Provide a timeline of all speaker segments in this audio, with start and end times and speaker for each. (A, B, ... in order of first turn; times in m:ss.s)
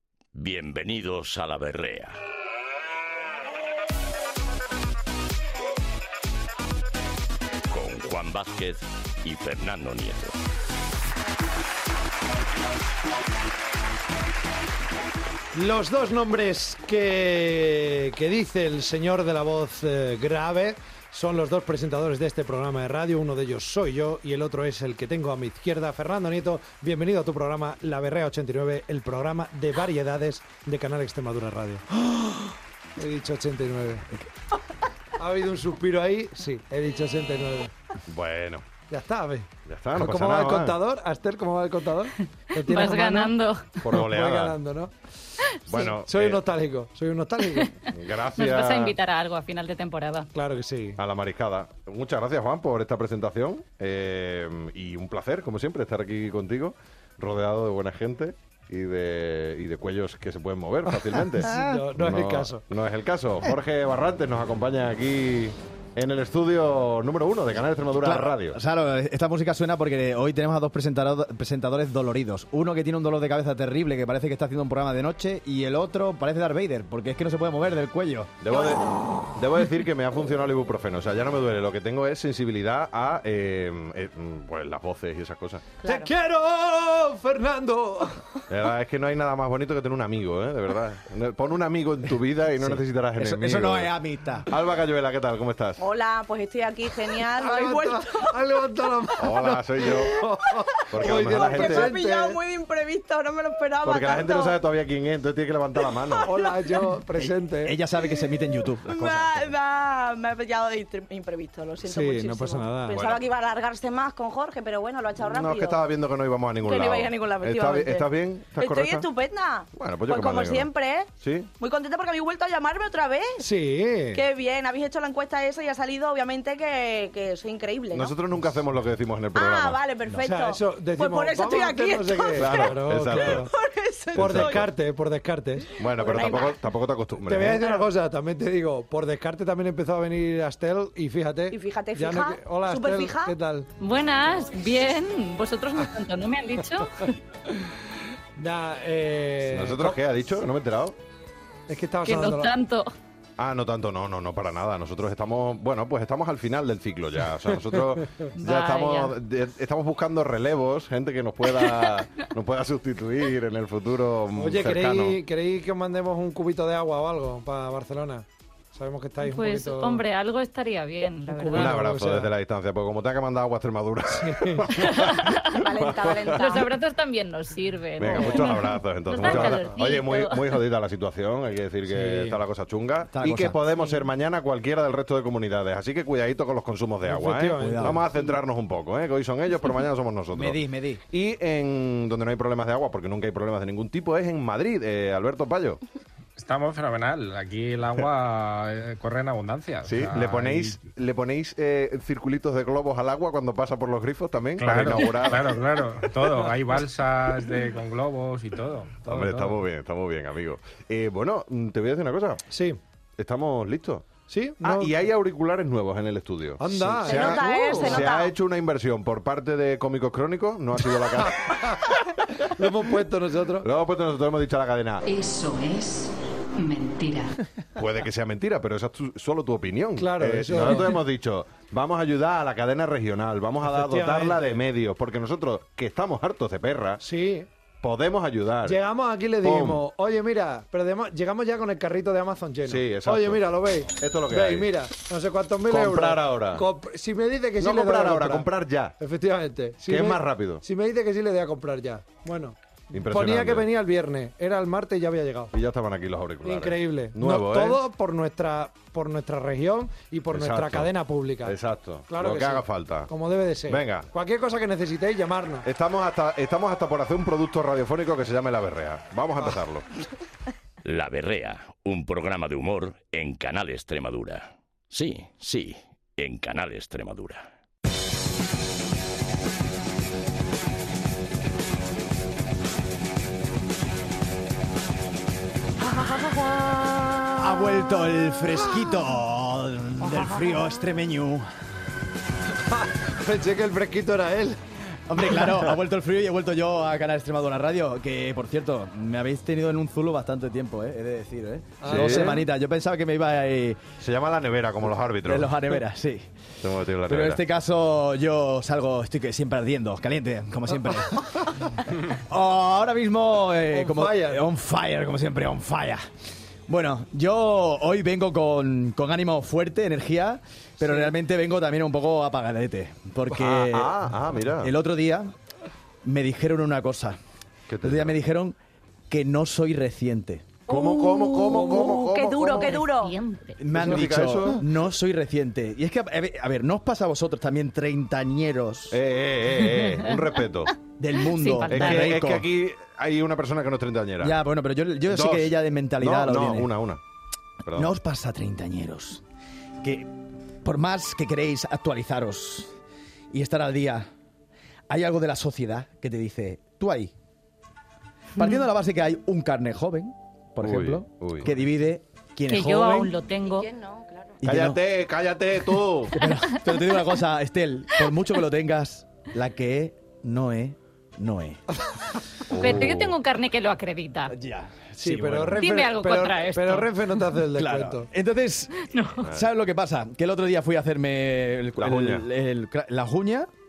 0:00.3-0:02.2 A
0:07.7-0:10.3 A
0:15.5-0:31.9 B
0:32.0-0:32.5 C
0:33.0-0:34.1 B
0:35.2-0:37.7 B
0:38.1-0:38.7 D
0:38.9-0:43.3 B
0:39.7-0:40.8 D
0:42.6-0:43.8 E
0:43.8-0:44.5 D
0:43.9-0:44.9 B
0:45.7-0:46.4 D
0:45.7-0:47.7 B
0:47.9-0:49.0 D
0:48.4-0:50.3 E
0:50.3-0:51.0 B
0:51.0-1:08.6 D
1:01.1-1:01.8 C
1:01.5-1:02.6 B
1:08.0-1:18.4 C
1:18.4-1:25.6 D
1:25.8-1:26.1 E
1:25.8-1:28.4 B
1:28.5-1:33.9 D
1:32.6-1:34.5 C
1:34.4-1:35.8 D
1:35.8-1:38.4 F
1:37.4-1:42.4 B
1:39.2-1:40.1 D
1:40.9-1:42.0 D
1:41.2-1:44.6 F
1:43.8-1:46.3 D
1:45.9-1:46.8 F
1:46.2-1:47.8 B
1:47.2-1:49.5 C
1:48.8-1:55.8 F
1:51.8-1:53.0 B
1:52.9-1:53.2 D
1:55.2-1:59.1 D
1:56.6-2:03.4 F
1:59.7-2:00.7 D
2:01.2-2:01.5 D
2:03.4-2:04.2 B
2:04.1-2:08.2 F
2:07.9-2:09.8 D
2:09.3-2:14.6 F
2:10.2-2:13.5 B
2:12.4-2:13.5 D
2:14.1-2:14.7 D
2:14.1-2:16.3 B
2:15.8-2:17.6 D
2:15.9-2:16.6 F
2:17.2-2:23.7 B
2:21.5-2:23.3 F
2:23.8-2:27.1 E
2:28.4-2:30.0 B
2:29.5-2:31.0 D
2:31.7-2:32.5 B
2:32.0-2:32.9 E
2:33.4-2:45.2 D
2:38.4-2:39.1 E
2:44.4-2:50.0 B
2:49.2-2:51.7 E
2:51.3-2:52.3 B
2:51.5-2:56.6 D
2:54.1-2:54.7 B
2:54.7-2:55.5 E
2:55.4-2:56.7 F
2:56.3-3:00.4 E
2:58.0-3:15.8 D
2:58.2-2:58.5 B
2:59.2-2:59.6 B
3:01.8-3:02.4 B
3:03.1-3:03.6 C
3:07.0-3:08.0 B
3:07.6-3:08.0 C
3:10.3-3:11.0 C
3:16.4-3:20.8 G
3:19.8-3:25.8 D
3:24.6-3:29.6 G
3:29.0-3:32.4 D
3:32.5-3:32.8 B
3:33.2-3:34.1 D
3:34.3-3:35.0 B
3:34.6-3:42.0 D
3:36.6-3:38.1 B
3:37.0-3:38.3 F
3:41.2-3:41.8 B
3:42.4-3:43.6 B
3:43.6-3:45.1 D
3:45.0-3:46.0 E
3:46.6-3:47.3 E
3:47.8-3:57.0 D
3:50.0-3:51.0 B
3:53.6-3:54.5 B
3:57.0-3:57.5 B
3:57.8-3:58.8 D
3:58.6-4:08.5 B
3:59.4-3:59.8 D
4:02.7-4:03.4 D
4:03.9-4:04.7 D
4:05.7-4:06.6 D
4:07.6-4:08.9 D
4:09.0-4:15.5 B
4:09.9-4:10.6 D
4:12.9-4:13.6 D
4:15.5-4:17.8 D
4:16.4-4:25.6 B
4:20.3-4:20.9 D
4:21.4-4:23.1 D
4:23.7-4:24.1 D
4:25.6-4:29.9 D
4:30.8-4:37.5 A
4:47.3-4:51.5 C
4:52.7-4:54.6 B
4:55.1-5:03.8 C
5:01.8-5:02.4 B
5:01.9-5:02.4 D
5:04.0-5:05.5 D
5:05.2-5:06.3 C
5:06.6-5:07.4 D
5:07.0-5:16.0 C
5:13.7-5:14.4 B
5:16.7-5:24.0 C
5:20.8-5:21.1 B
5:23.4-5:24.7 D
5:24.6-5:25.3 C
5:26.0-5:27.2 C
5:27.7-5:28.2 D
5:27.8-5:28.6 C
5:29.1-5:30.6 C
5:30.7-5:32.8 D
5:30.7-5:33.1 F
5:31.5-5:32.0 B
5:32.5-5:33.6 E
5:33.6-5:39.0 C
5:33.7-5:34.6 D
5:38.9-5:40.8 D
5:41.0-5:42.5 C
5:41.2-5:42.2 E
5:41.7-5:44.4 D
5:44.2-5:46.7 C
5:45.1-5:47.0 D
5:47.6-5:47.9 D
5:47.7-5:49.2 C
5:49.8-5:50.1 C
5:50.6-5:52.7 C
5:53.3-5:54.1 C
5:54.9-5:57.1 C
5:58.4-6:03.1 C
6:00.6-6:01.6 D
6:02.5-6:03.7 E
6:03.2-6:04.4 F
6:04.4-6:04.8 C
6:04.4-6:06.2 D
6:06.1-6:11.6 C
6:12.5-6:13.2 D
6:12.5-6:14.3 E
6:14.3-6:15.6 C
6:15.0-6:18.1 B
6:15.6-6:16.9 E
6:17.5-6:23.5 C
6:18.8-6:19.3 E
6:21.8-6:22.2 D